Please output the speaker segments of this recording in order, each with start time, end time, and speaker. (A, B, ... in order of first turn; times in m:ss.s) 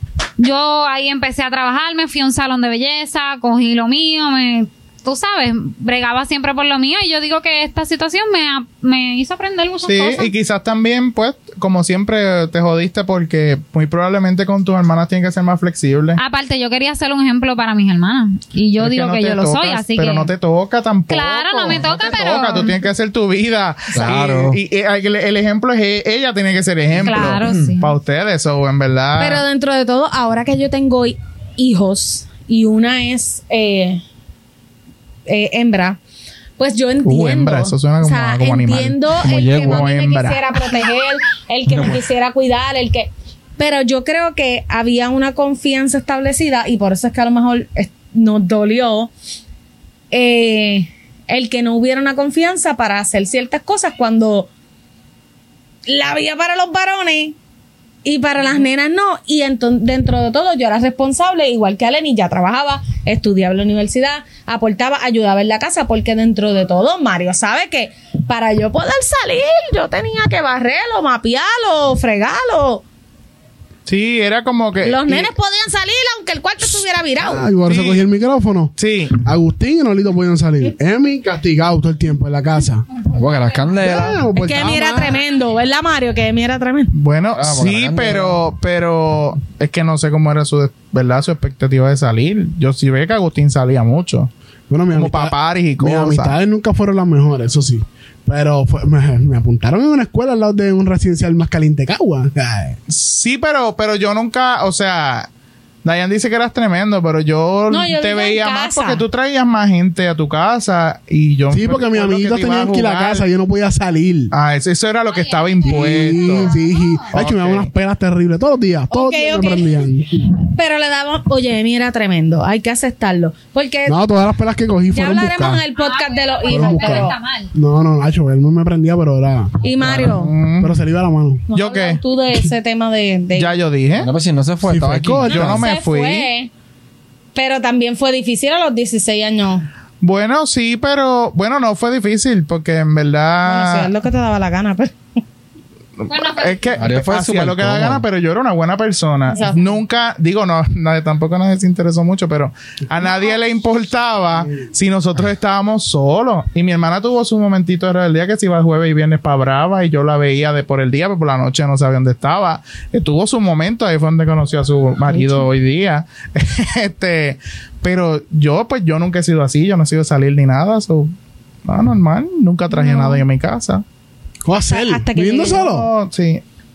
0:00.4-0:10.3 A
0:09.9-0:16.2 B
0:16.2-0:20.3 A
0:18.8-0:29.4 B
0:21.1-0:22.8 A
0:23.9-0:24.6 C
0:27.0-0:27.9 A
0:27.4-0:27.7 C
0:29.2-0:34.0 D
0:35.3-0:36.0 D
0:36.6-0:49.1 D
0:37.0-0:39.0 B
0:39.2-0:39.9 C
0:39.6-0:40.4 B
0:41.7-0:42.0 C
0:50.1-0:54.5 D
0:55.9-0:57.4 D
0:58.0-1:12.8 D
1:13.9-1:15.3 B
1:14.8-1:17.5 D
1:17.2-1:22.9 E
1:17.7-1:18.0 B
1:18.8-1:19.2 B
1:23.0-1:24.3 C
1:23.8-1:25.2 E
1:24.3-1:26.9 D
1:26.9-1:34.3 B
1:27.4-1:28.5 C
1:34.7-1:42.8 E
1:34.9-1:36.4 B
1:42.9-1:45.3 B
1:45.8-1:53.3 B
1:47.7-1:49.0 D
1:51.5-1:54.3 E
1:54.3-1:56.5 B
1:55.1-1:57.2 A
1:55.6-2:00.3 E
1:57.1-1:57.7 B
1:58.9-2:04.0 D
2:03.9-2:05.7 E
2:04.9-2:07.2 D
2:05.8-2:07.5 A
2:06.5-2:10.0 E
2:09.6-2:10.3 D
2:09.8-2:10.2 C
2:10.0-2:10.8 B
2:10.6-2:11.4 E
2:11.5-2:13.6 D
2:11.5-2:12.0 B
2:13.3-2:14.1 B
2:13.9-2:15.7 C
2:14.6-2:15.6 E
2:15.3-2:16.3 B
2:15.3-2:16.5 D
2:17.4-2:19.7 D
2:20.0-2:23.9 B
2:23.4-2:25.0 D
2:26.0-2:51.1 B
2:26.1-2:26.8 A
2:26.8-2:28.0 C
2:29.3-2:29.7 D
2:45.1-2:45.5 D
2:51.7-2:53.8 B
2:52.7-2:53.2 D
2:54.4-2:55.9 E
2:54.6-2:55.7 D
2:55.5-2:56.4 B